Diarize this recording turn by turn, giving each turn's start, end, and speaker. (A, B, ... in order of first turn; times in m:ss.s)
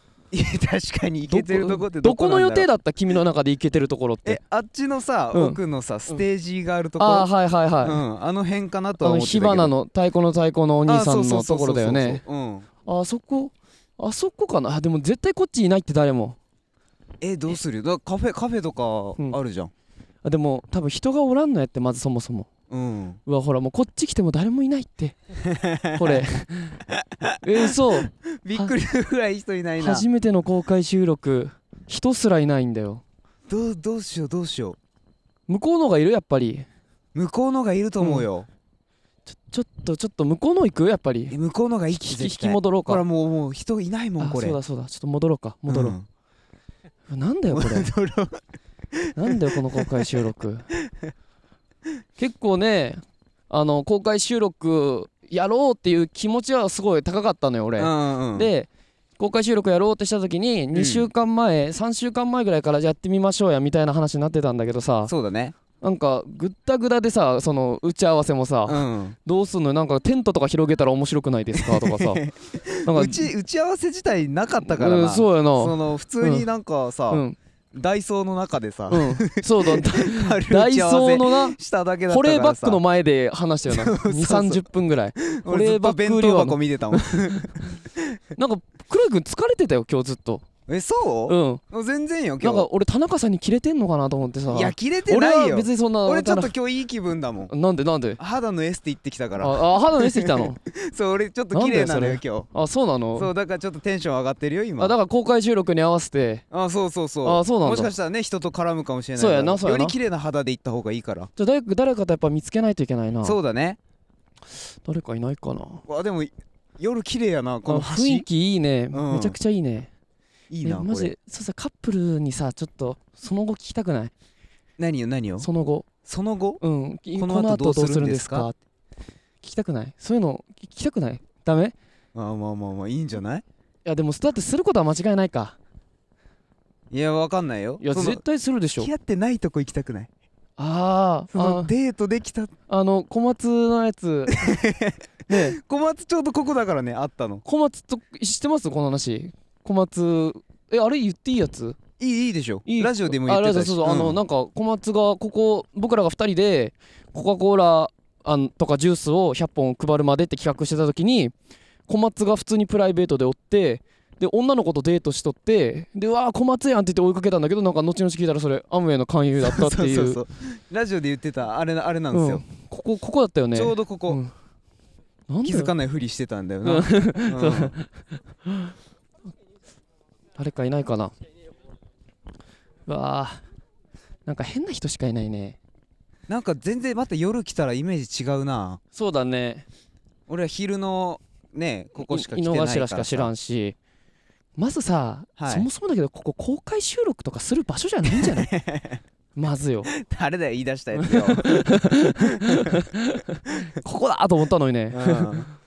0:00.3-0:02.7 A
0:01.3-0:04.4 B
0:04.2-0:07.3 A
0:05.3-0:06.2 B
0:07.0-0:08.0 B
0:07.8-0:09.7 A
0:09.0-0:12.2 B
0:10.9-0:12.7 A
0:12.8-0:16.4 B
0:17.2-0:19.7 A
0:20.2-0:22.5 B
0:22.7-0:23.2 A
0:23.3-0:25.2 B
0:25.5-0:26.4 A
0:26.0-0:26.8 B
0:26.9-0:30.1 A
0:27.4-0:28.8 B
0:29.8-0:33.0 B
0:33.5-0:34.8 A
0:35.5-0:36.7 B
0:37.1-0:38.5 A
0:38.0-0:38.3 B
0:39.3-0:41.4 B
0:41.3-0:44.6 A
0:41.9-0:43.0 B
0:44.2-0:46.0 B
0:45.7-0:46.1 A
0:47.1-0:47.9 B
0:47.5-0:48.4 A
0:48.9-0:50.2 A
0:49.2-0:50.7 B
0:50.8-0:51.1 A
0:52.2-0:58.7 B
0:57.8-0:58.5 A
0:59.2-1:05.1 B
1:00.7-1:01.1 A
1:05.1-1:05.6 A
1:05.8-1:12.3 B
1:08.7-1:09.2 A
1:11.5-1:22.8 A
1:12.8-1:13.3 B
1:14.6-1:16.5 B
1:17.1-1:17.4 B
1:18.9-1:21.6 B
1:22.1-1:27.5 B
1:23.7-1:24.6 A
1:25.3-1:28.2 A
1:28.4-1:30.4 B
1:30.7-1:32.7 A
1:31.3-1:31.6 B
1:32.4-1:36.5 B
1:34.5-1:37.5 A
1:37.5-1:38.2 B
1:38.2-1:42.5 A
1:39.4-1:40.6 B
1:41.5-1:43.3 B
1:43.2-1:44.9 A
1:44.8-1:46.4 B
1:46.5-1:51.3 A
1:47.2-1:47.9 B
1:49.2-1:50.0 B
1:51.4-1:53.4 B
1:53.2-1:53.8 A
1:54.6-1:55.8 B
1:55.9-1:58.3 A
1:57.7-1:59.9 B
1:58.9-1:59.4 A
2:00.5-2:01.1 A
2:00.6-2:04.1 B
2:04.8-2:05.5 A
2:05.4-2:05.9 B
2:06.0-2:06.6 A
2:06.6-2:08.6 B
2:07.2-2:08.5 A
2:09.4-2:11.8 B
2:12.1-2:13.4 A
2:13.8-2:15.6 B
2:16.9-2:18.2 A
2:17.8-2:18.9 B
2:18.8-2:20.1 A
2:20.6-2:21.7 B
2:21.3-2:22.5 A
2:22.7-2:24.6 B
2:24.4-2:27.4 A
2:25.3-2:25.6 B
2:27.4-2:31.8 B
2:32.0-2:34.2 A
2:32.7-2:41.3 B
2:41.9-2:50.2 B
2:49.4-2:52.4 A
2:52.1-2:54.3 B
2:53.5-2:54.2 A
2:55.3-2:55.7 B
2:55.4-2:57.8 A
2:56.6-2:57.9 B
2:58.5-2:58.7 B
3:00.4-3:01.1 B
3:02.9-3:03.4 B
3:04.3-3:05.6 B
3:06.3-3:08.8 A
3:08.9-3:09.7 B
3:10.3-3:13.3 A
3:12.0-3:13.8 B
3:14.6-3:18.5 B
3:15.4-3:15.7 A
3:18.1-3:19.0 A
3:19.4-3:19.9 B
3:19.9-3:22.7 A
3:21.0-3:25.3 B
3:24.9-3:25.5 A